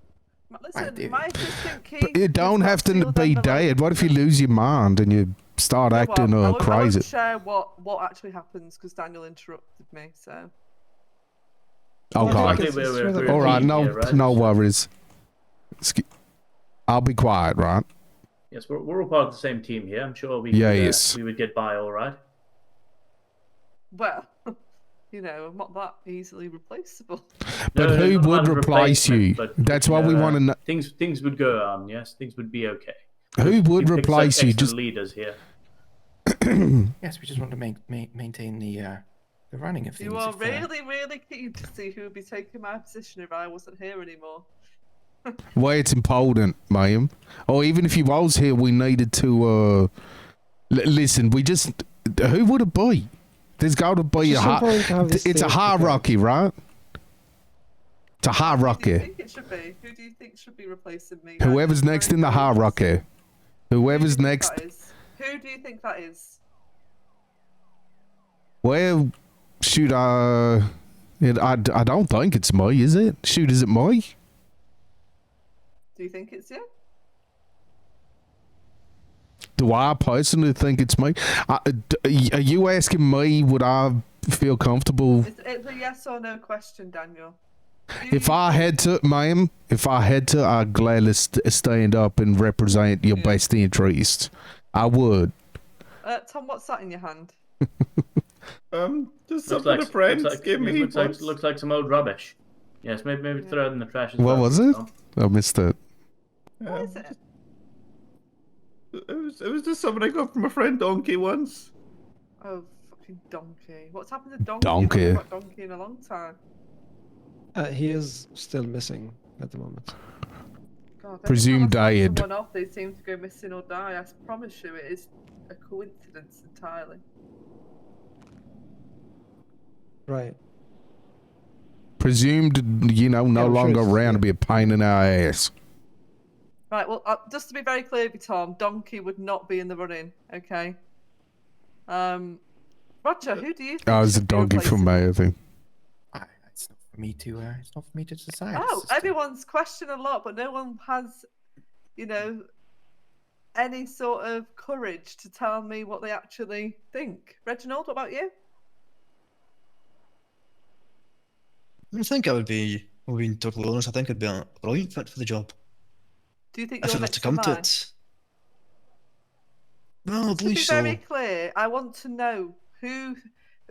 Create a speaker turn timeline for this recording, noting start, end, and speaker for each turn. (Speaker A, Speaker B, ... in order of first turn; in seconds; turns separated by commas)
Speaker A: 0.5-4.2, Speaker B: 0.7-1.3, Speaker C: 2.0-7.0, Speaker A: 5.9-10.5, Speaker C: 12.1-14.9, Speaker D: 12.2-13.8, Speaker E: 12.2-14.6, Speaker C: 16.9-17.9, Speaker E: 18.5-22.2, Speaker C: 20.5-21.2, Speaker A: 23.9-24.3, Speaker A: 25.1-27.3, Speaker C: 27.7-30.6, Speaker E: 27.7-35.4, Speaker C: 33.4-34.7, Speaker C: 36.4-36.9, Speaker B: 37.0-40.7, Speaker A: 40.0-44.5, Speaker C: 45.6-49.9, Speaker C: 50.7-56.6, Speaker D: 54.2-56.1, Speaker C: 58.2-59.1, Speaker A: 58.4-62.8, Speaker C: 61.4-63.0, Speaker C: 63.7-64.6, Speaker A: 63.8-66.4, Speaker C: 68.6-69.1, Speaker C: 69.6-70.7, Speaker C: 71.2-74.1, Speaker A: 76.0-76.6, Speaker C: 79.6-85.3, Speaker A: 85.2-87.4, Speaker A: 88.0-88.7, Speaker C: 88.1-95.3, Speaker A: 93.1-93.4, Speaker A: 96.0-97.4, Speaker F: 98.7-101.3, Speaker E: 99.5-104.9, Speaker C: 104.2-105.8, Speaker F: 106.6-106.9, Speaker A: 106.7-107.2, Speaker F: 108.9-111.7, Speaker A: 112.4-116.4, Speaker C: 114.6-115.2, Speaker D: 117.5-120.0, Speaker A: 121.0-127.0, Speaker C: 121.3-122.2, Speaker D: 130.1-130.4, Speaker C: 132.0-135.5, Speaker D: 133.3-134.3, Speaker A: 136.7-140.8, Speaker A: 141.9-142.4, Speaker A: 143.0-145.0, Speaker C: 143.8-145.3, Speaker B: 146.1-149.2, Speaker A: 148.5-151.2, Speaker A: 152.0-152.4, Speaker A: 153.6-158.3, Speaker G: 161.9-165.5, Speaker A: 166.5-167.7, Speaker G: 166.8-167.9, Speaker G: 170.1-171.0, Speaker A: 170.3-173.2